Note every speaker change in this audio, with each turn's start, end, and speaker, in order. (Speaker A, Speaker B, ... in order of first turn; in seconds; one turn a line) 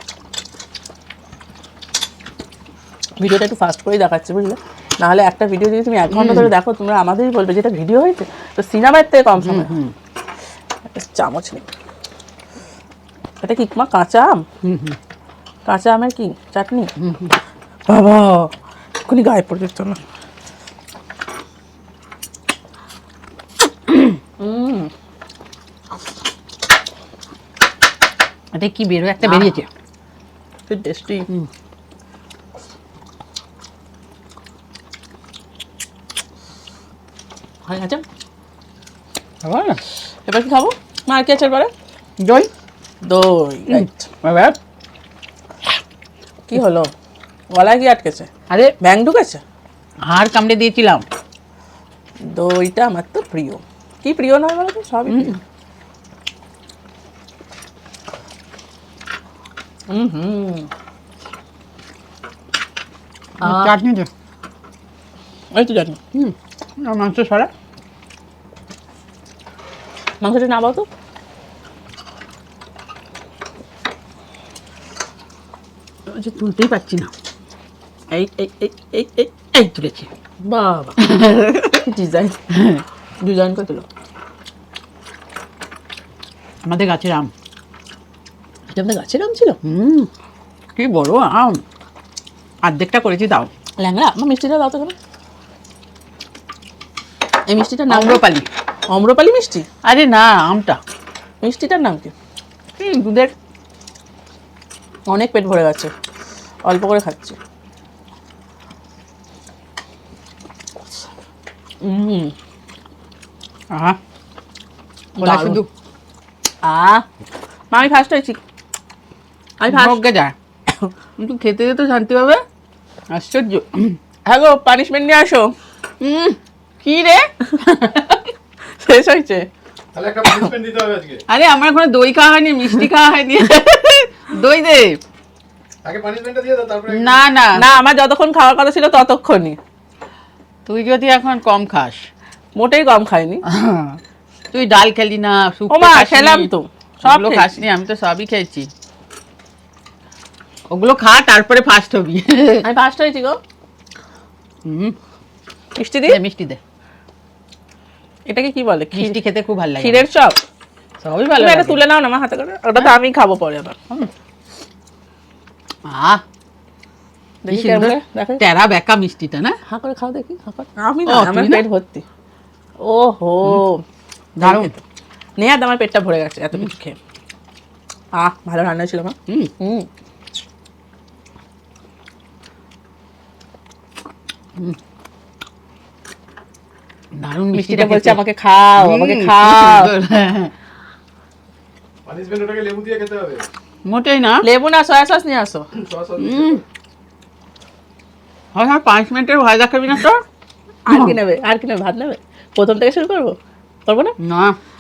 Speaker A: 3.2-9.7
Speaker B: 6.1-6.5
Speaker B: 9.4-9.9
Speaker A: 10.8-11.7
Speaker A: 13.4-14.4
Speaker B: 14.6-15.0
Speaker A: 15.7-16.9
Speaker B: 17.0-17.3
Speaker A: 17.9-18.5
Speaker A: 19.1-20.0
Speaker A: 24.4-24.9
Speaker B: 28.5-29.7
Speaker A: 29.2-29.6
Speaker A: 30.7-31.3
Speaker A: 37.7-38.0
Speaker B: 39.4-39.8
Speaker A: 40.3-41.7
Speaker B: 42.2-42.5
Speaker A: 43.0-44.1
Speaker B: 43.7-44.6
Speaker A: 46.5-46.9
Speaker A: 47.5-48.3
Speaker A: 48.8-49.4
Speaker B: 50.0-51.0
Speaker A: 52.2-55.4
Speaker B: 55.1-55.4
Speaker A: 59.9-60.7
Speaker B: 63.4-64.1
Speaker A: 63.4-63.7
Speaker A: 65.5-66.0
Speaker B: 66.1-67.5
Speaker A: 70.2-70.9
Speaker B: 76.1-77.1
Speaker A: 78.1-79.3
Speaker B: 79.4-80.1
Speaker A: 80.4-81.1
Speaker B: 81.0-81.8
Speaker A: 81.8-82.4
Speaker B: 82.5-82.8
Speaker A: 83.2-83.9
Speaker B: 86.6-87.3
Speaker A: 88.7-89.6
Speaker B: 89.6-90.1
Speaker B: 90.8-91.6
Speaker B: 92.6-93.5
Speaker A: 93.8-95.0
Speaker A: 97.5-98.2
Speaker B: 97.9-98.5
Speaker A: 98.9-99.7
Speaker B: 99.8-100.8
Speaker A: 101.4-102.1
Speaker B: 102.8-103.3
Speaker A: 105.1-105.9
Speaker A: 106.6-107.4
Speaker A: 111.8-112.3
Speaker B: 113.7-114.0
Speaker A: 115.2-115.6
Speaker B: 115.2-115.7
Speaker B: 116.6-117.0
Speaker A: 117.7-118.4
Speaker A: 119.6-120.0
Speaker B: 119.7-120.3
Speaker B: 121.2-122.4
Speaker B: 123.1-124.0
Speaker A: 124.2-125.5
Speaker B: 126.0-128.3
Speaker A: 128.8-129.5
Speaker C: 129.9-131.2
Speaker B: 131.3-135.0
Speaker C: 135.8-137.2
Speaker B: 136.9-137.6
Speaker A: 137.6-139.6
Speaker B: 140.7-142.1
Speaker A: 142.6-143.4
Speaker B: 143.4-144.0
Speaker B: 144.5-146.5
Speaker A: 145.7-147.6
Speaker B: 147.0-148.7
Speaker B: 150.7-152.7
Speaker A: 152.6-153.4
Speaker B: 154.7-155.0
Speaker A: 155.8-156.2
Speaker B: 156.1-156.6
Speaker A: 158.3-159.2
Speaker B: 158.9-160.0
Speaker A: 159.8-160.4
Speaker B: 161.0-161.8
Speaker A: 161.4-163.8
Speaker B: 165.9-166.2
Speaker A: 167.4-168.4
Speaker B: 167.5-169.6
Speaker A: 169.7-172.0
Speaker B: 171.1-171.6
Speaker A: 172.8-173.8
Speaker B: 174.4-174.7
Speaker A: 174.4-174.8
Speaker A: 175.4-177.0
Speaker A: 178.1-179.9
Speaker B: 187.2-188.2
Speaker A: 187.5-189.9
Speaker B: 188.8-190.5
Speaker C: 192.1-193.5
Speaker B: 193.8-194.4
Speaker A: 194.4-195.7
Speaker C: 195.8-196.6
Speaker B: 196.2-196.6
Speaker B: 198.6-200.2
Speaker A: 200.8-204.2
Speaker B: 200.9-201.2
Speaker B: 204.2-204.6